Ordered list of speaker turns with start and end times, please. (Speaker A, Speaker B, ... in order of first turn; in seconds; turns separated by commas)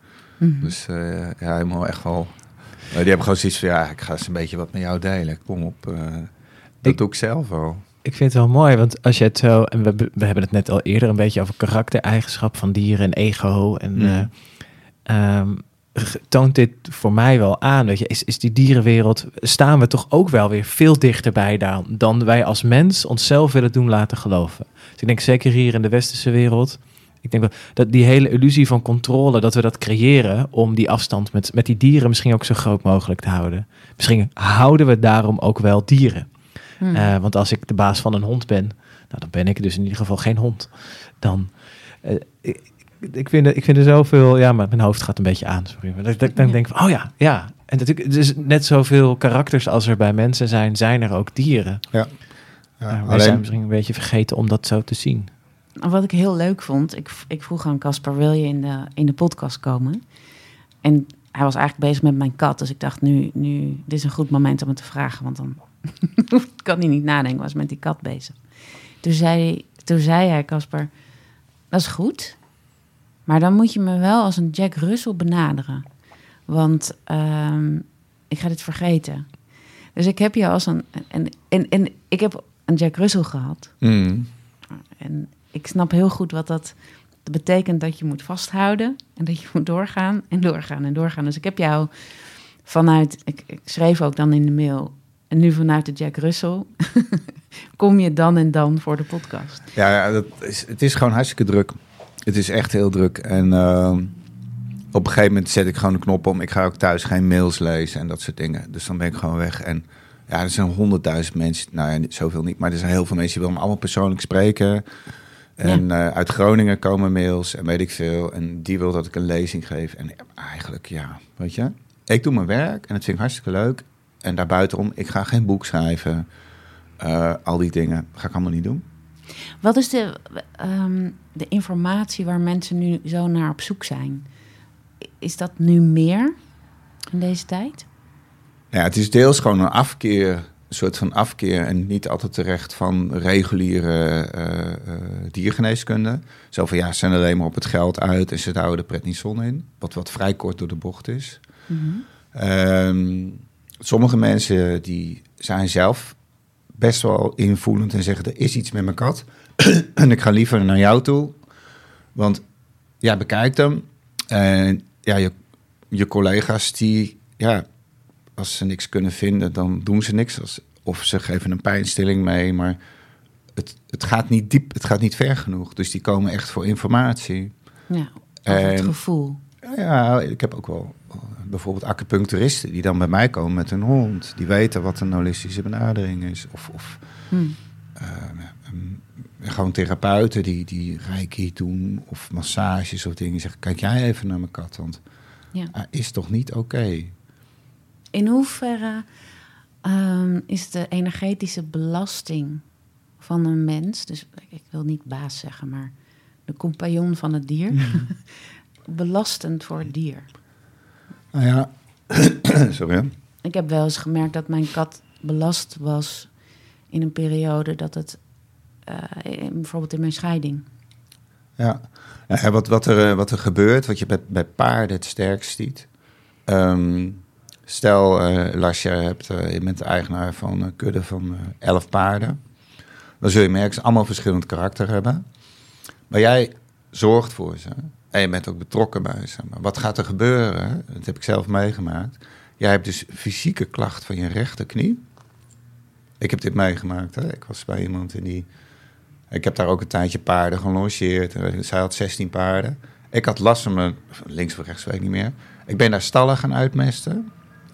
Speaker A: 0.4-0.7, Speaker B: 0.6-7.8, Speaker C: 8.0-51.8, Speaker B: 13.9-14.3, Speaker A: 36.8-37.1, Speaker B: 52.8-53.4, Speaker C: 52.9-55.3, Speaker A: 55.8-60.0, Speaker A: 60.8-68.4, Speaker A: 69.0-70.9, Speaker A: 71.7-72.4, Speaker A: 73.2-75.8, Speaker A: 76.5-79.3, Speaker A: 79.9-83.7, Speaker B: 83.8-84.3, Speaker A: 85.0-99.7, Speaker B: 99.7-104.1, Speaker B: 104.9-114.8, Speaker B: 115.6-126.2, Speaker B: 127.0-128.8, Speaker A: 129.6-134.2, Speaker A: 135.0-136.4, Speaker A: 137.1-137.8, Speaker B: 138.7-151.4, Speaker A: 151.7-152.0, Speaker B: 152.3-156.2, Speaker B: 156.8-161.4, Speaker B: 162.1-162.4, Speaker B: 163.0-165.3, Speaker B: 165.9-167.6, Speaker B: 168.4-172.8, Speaker B: 173.5-177.5, Speaker A: 177.9-179.4, Speaker B: 178.4-179.0, Speaker B: 179.6-187.0, Speaker A: 187.3-187.6, Speaker B: 187.9-195.0, Speaker B: 195.7-197.1, Speaker A: 198.1-199.1, Speaker A: 199.8-202.6, Speaker A: 203.2-205.9, Speaker A: 206.5-210.3, Speaker B: 207.8-208.0, Speaker B: 211.3-213.1, Speaker A: 213.4-216.3, Speaker A: 216.9-218.2, Speaker A: 218.8-220.6, Speaker B: 221.6-225.9, Speaker B: 226.5-232.4, Speaker B: 233.2-235.2, Speaker B: 236.1-245.0, Speaker B: 246.2-248.5, Speaker B: 249.3-257.2